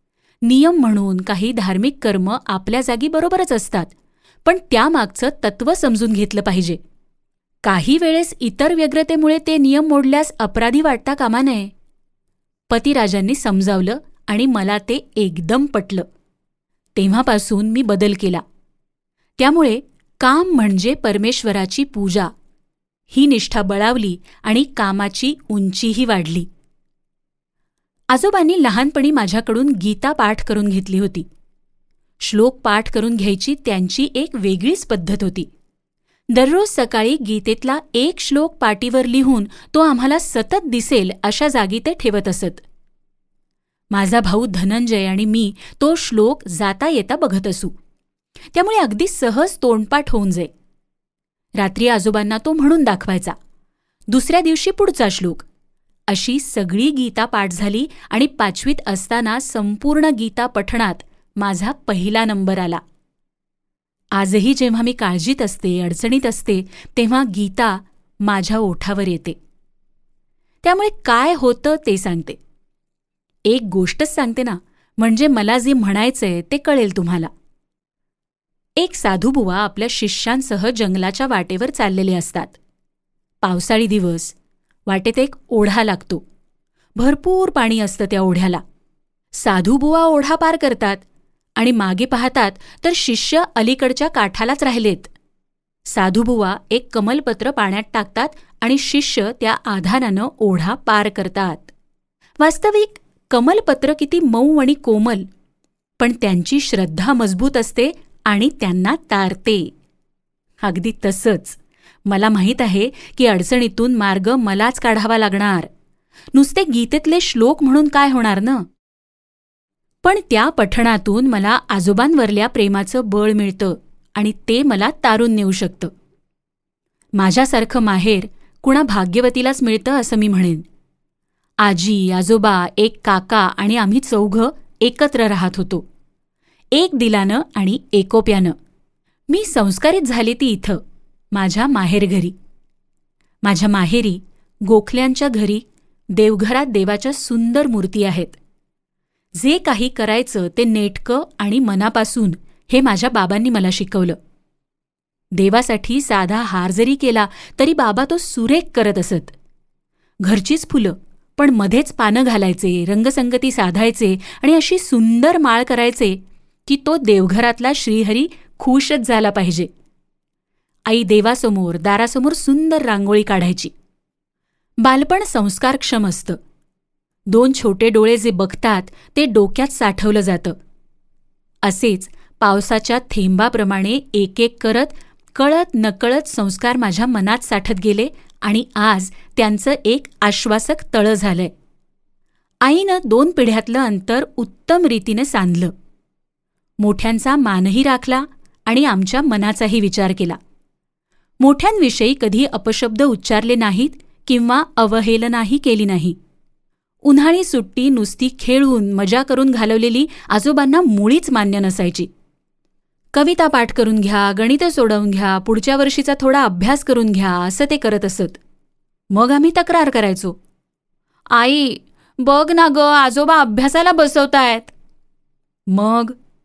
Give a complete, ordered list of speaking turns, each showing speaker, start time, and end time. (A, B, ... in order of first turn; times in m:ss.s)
0:00.4-0:03.9 A
0:04.4-0:06.8 A
0:07.6-0:11.7 A
0:12.7-0:16.0 A
0:17.0-0:18.4 A
0:19.4-0:22.3 A
0:23.1-0:26.5 A
0:28.1-0:31.2 A
0:32.2-0:35.5 A
0:36.3-0:42.6 A
0:43.9-0:47.7 A
0:48.5-0:50.5 A
0:51.6-0:53.4 A
0:54.1-0:55.4 A
0:56.1-1:02.8 A
1:04.1-1:09.4 A
1:10.6-1:12.4 A
1:13.4-1:17.3 A
1:18.8-1:22.6 A
1:23.4-1:24.3 A
1:24.9-1:26.2 A
1:27.0-1:28.6 A
1:29.3-1:31.0 A
1:31.6-1:35.1 A
1:35.9-1:41.7 A
1:42.4-1:45.2 A
1:46.0-1:49.7 A
1:50.6-1:55.7 A
1:56.3-1:58.7 A
2:00.0-2:05.9 A
2:07.1-2:10.6 A
2:11.6-2:15.8 A
2:16.7-2:18.5 A
2:19.3-2:20.8 A
2:21.3-2:22.3 A
2:23.4-2:28.4 A
2:29.4-2:34.2 A
2:35.3-2:39.3 A
2:40.2-2:49.7 A
2:50.9-2:53.7 A
2:54.8-2:56.4 A
2:57.3-3:00.6 A
3:01.6-3:11.5 A
3:12.6-3:15.7 A
3:16.8-3:20.4 A
3:21.4-3:26.2 A
3:27.0-3:32.1 A
3:33.1-3:38.4 A
3:39.1-3:40.4 A
3:41.3-3:44.7 A
3:45.7-3:46.2 A